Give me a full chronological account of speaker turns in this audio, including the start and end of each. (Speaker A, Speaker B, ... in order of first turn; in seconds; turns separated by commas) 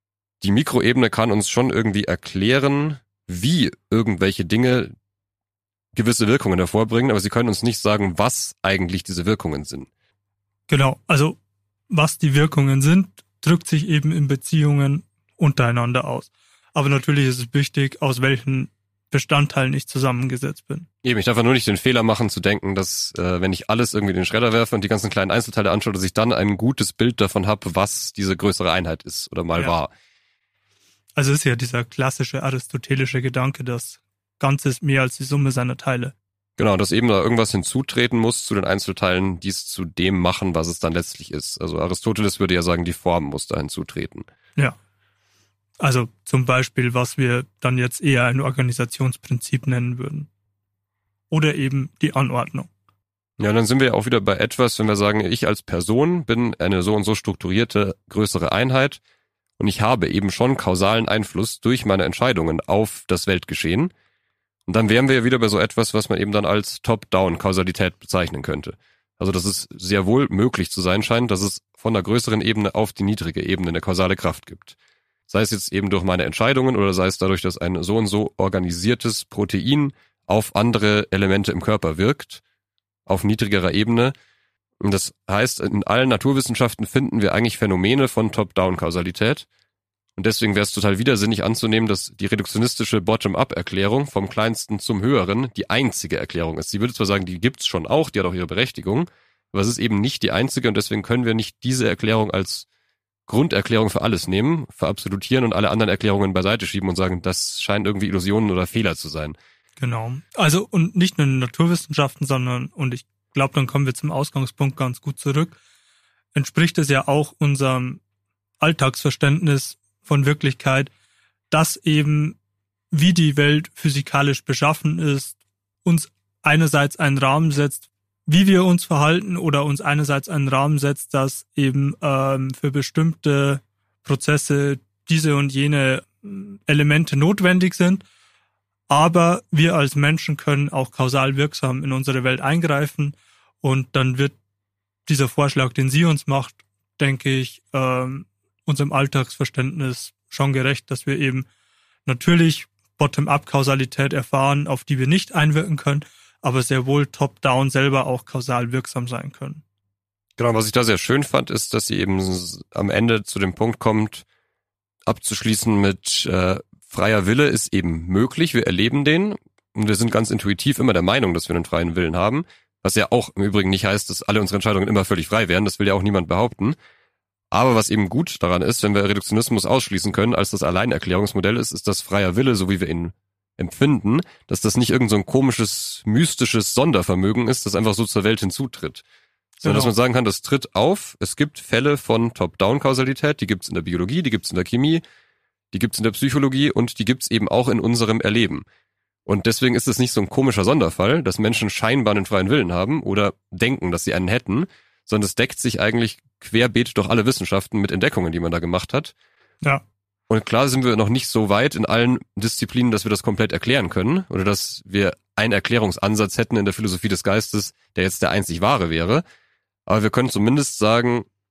Speaker A: 0.4-4.9, Speaker A: 6.0-9.9, Speaker B: 10.7-11.4, Speaker B: 11.9-20.9, Speaker A: 21.0-29.9, Speaker B: 31.2-36.1, Speaker A: 36.6-44.3, Speaker B: 45.8-50.3, Speaker B: 51.3-52.7, Speaker A: 53.4-59.0, Speaker A: 59.6-63.9, Speaker A: 64.7-74.8, Speaker A: 75.3-82.4, Speaker A: 83.1-84.1, Speaker A: 84.8-89.5, Speaker A: 90.2-102.7, Speaker A: 103.3-109.4, Speaker B: 109.8-115.6, Speaker B: 116.3-118.0, Speaker B: 118.6-120.9, Speaker B: 121.5-122.4, Speaker B: 122.9-138.0, Speaker B: 138.9-144.4, Speaker B: 145.1-151.5, Speaker B: 152.1-159.6, Speaker A: 160.4-164.2, Speaker A: 165.1-176.8, Speaker A: 177.5-189.1, Speaker B: 189.6-189.9, Speaker A: 189.6-195.0, Speaker A: 195.7-198.7, Speaker A: 199.3-209.1, Speaker A: 210.3-219.2, Speaker A: 219.9-221.3